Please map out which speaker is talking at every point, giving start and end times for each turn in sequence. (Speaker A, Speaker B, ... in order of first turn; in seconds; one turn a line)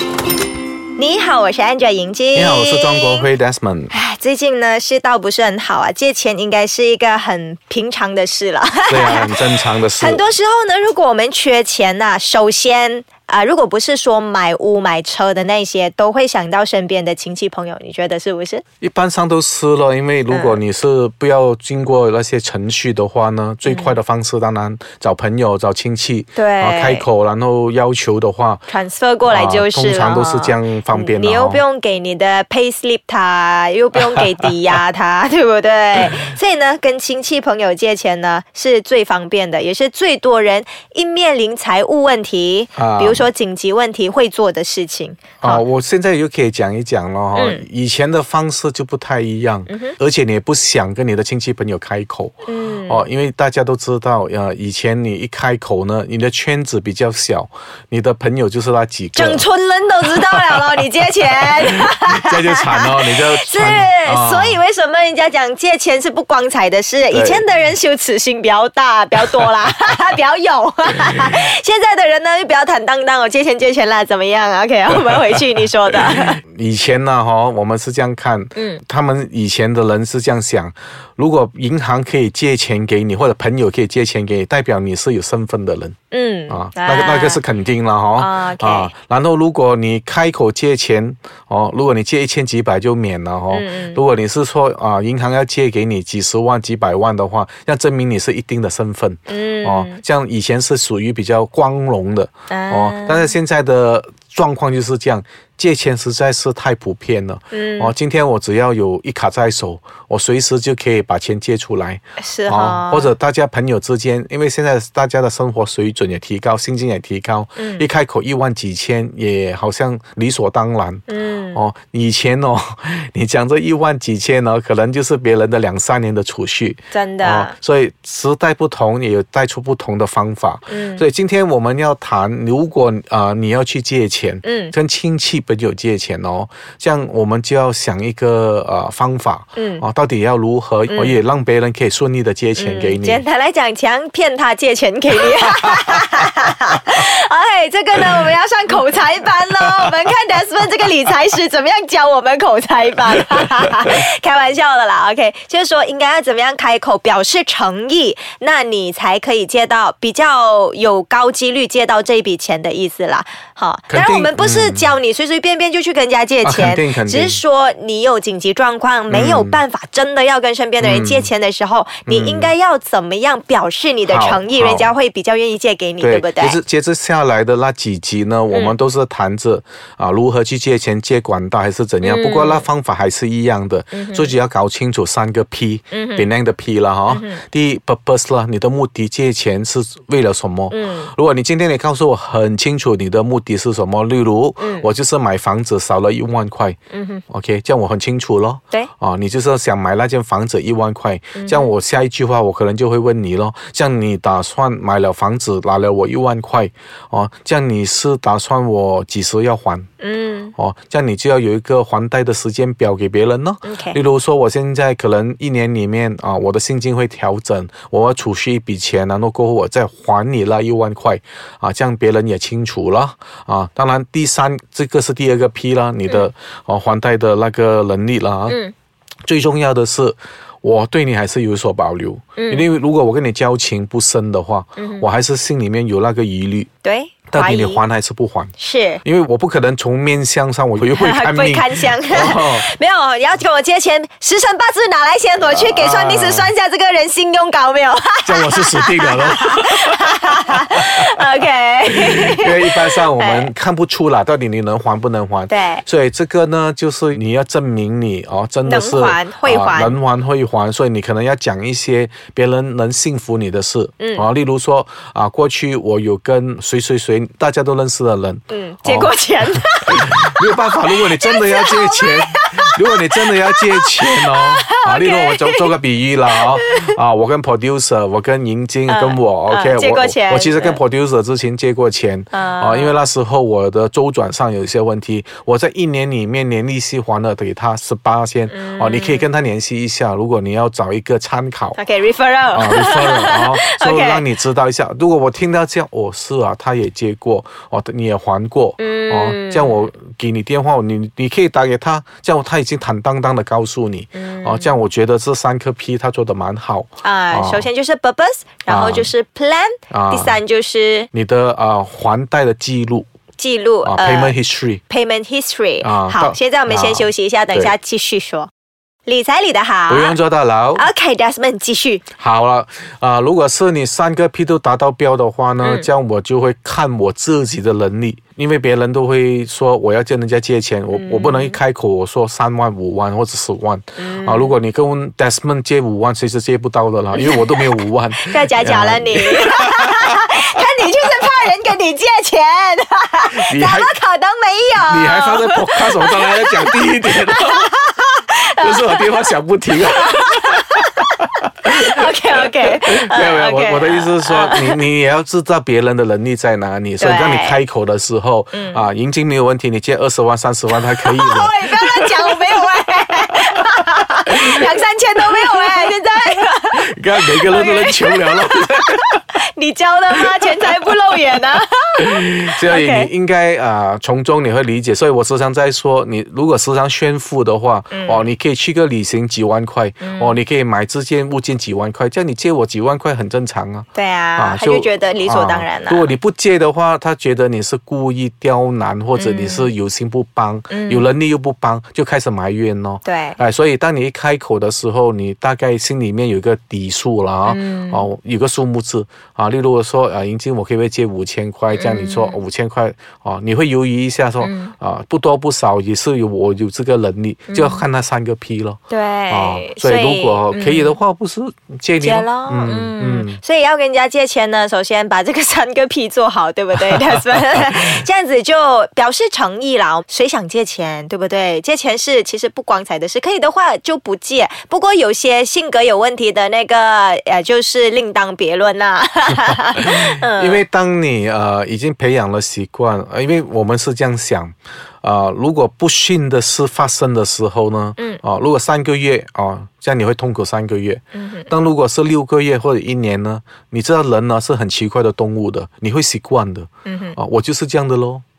Speaker A: 1.0-3.3
Speaker B: 2.3-3.9
Speaker A: 3.9-18.6
Speaker B: 8.9-10.2
Speaker B: 18.8-28.6
Speaker A: 20.3-20.6
Speaker A: 23.6-23.9
Speaker A: 26.4-27.1
Speaker A: 28.7-45.6
Speaker B: 29.2-31.6
Speaker B: 42.8-43.3
Speaker B: 45.4-52.3
Speaker A: 47.3-47.6
Speaker A: 49.7-50.0
Speaker A: 52.4-53.0
Speaker B: 52.9-59.4
Speaker A: 59.1-76.4
Speaker B: 60.1-60.7
Speaker B: 61.4-64.6
Speaker B: 67.1-67.4
Speaker B: 75.9-85.9
Speaker A: 78.5-78.8
Speaker A: 86.1-87.4
Speaker B: 86.5-121.0
Speaker A: 88.2-88.9
Speaker A: 93.5-94.0
Speaker A: 99.3-100.0
Speaker A: 102.5-103.3
Speaker A: 107.5-107.9
Speaker A: 112.2-113.1
Speaker A: 117.5-117.8
Speaker A: 121.1-121.6
Speaker B: 121.5-143.2
Speaker A: 126.9-127.5
Speaker A: 130.7-131.0
Speaker A: 134.4-134.7
Speaker A: 139.6-139.8
Speaker A: 140.9-141.2
Speaker A: 142.6-176.6
Speaker B: 163.9-164.9
Speaker B: 166.4-167.4
Speaker B: 169.1-169.6
Speaker B: 170.8-171.3
Speaker B: 172.1-172.5
Speaker B: 174.1-174.9
Speaker B: 176.0-196.8
Speaker A: 178.5-178.7
Speaker A: 182.0-182.7
Speaker A: 183.9-184.3
Speaker A: 185.9-186.3
Speaker A: 187.1-187.4
Speaker A: 190.7-191.1
Speaker A: 194.6-194.8
Speaker A: 196.9-197.2
Speaker B: 197.3-209.9
Speaker A: 201.3-201.7
Speaker A: 210.0-210.5
Speaker B: 210.6-228.6
Speaker A: 213.6-214.0
Speaker A: 228.5-228.7
Speaker B: 229.3-236.7
Speaker A: 232.3-232.7
Speaker A: 234.8-235.1
Speaker A: 236.8-237.8
Speaker B: 237.3-238.5
Speaker A: 238.6-239.0
Speaker B: 239.0-242.7
Speaker A: 240.9-253.5
Speaker B: 245.4-246.5
Speaker B: 248.2-251.0
Speaker B: 252.1-291.8
Speaker A: 255.5-255.8
Speaker A: 258.6-260.0
Speaker A: 264.0-264.3
Speaker A: 268.5-275.7
Speaker A: 276.3-277.0
Speaker A: 278.9-280.8
Speaker A: 282.3-283.0
Speaker A: 288.5-289.3
Speaker A: 291.7-294.2
Speaker B: 292.5-307.7
Speaker A: 298.8-299.9
Speaker A: 304.1-304.7
Speaker A: 307.0-311.1
Speaker B: 308.7-309.1
Speaker B: 309.9-310.4
Speaker B: 311.1-313.1
Speaker A: 313.4-314.4
Speaker B: 313.8-314.8
Speaker A: 314.9-318.5
Speaker B: 315.8-317.7
Speaker A: 319.1-320.2
Speaker B: 319.9-320.9
Speaker A: 320.7-322.0
Speaker B: 322.2-340.1
Speaker A: 325.6-325.9
Speaker A: 330.9-331.6
Speaker A: 334.0-334.6
Speaker A: 337.1-346.8
Speaker B: 343.3-343.9
Speaker B: 344.8-347.7
Speaker A: 347.4-349.3
Speaker B: 348.6-362.4
Speaker A: 349.9-354.8
Speaker A: 357.0-357.6
Speaker A: 358.5-358.8
Speaker A: 361.0-368.9
Speaker B: 365.3-365.6
Speaker B: 366.7-369.2
Speaker A: 369.5-373.1
Speaker B: 372.0-413.4
Speaker A: 377.9-378.2
Speaker A: 380.0-380.4
Speaker A: 383.9-386.1
Speaker A: 389.1-389.7
Speaker A: 390.7-391.1
Speaker A: 393.0-393.4
Speaker A: 397.4-398.1
Speaker A: 401.7-402.4
Speaker A: 404.4-404.7
Speaker A: 407.5-407.8
Speaker A: 408.9-411.0
Speaker A: 412.0-430.6
Speaker B: 429.8-448.2
Speaker A: 441.1-441.5
Speaker A: 446.8-447.2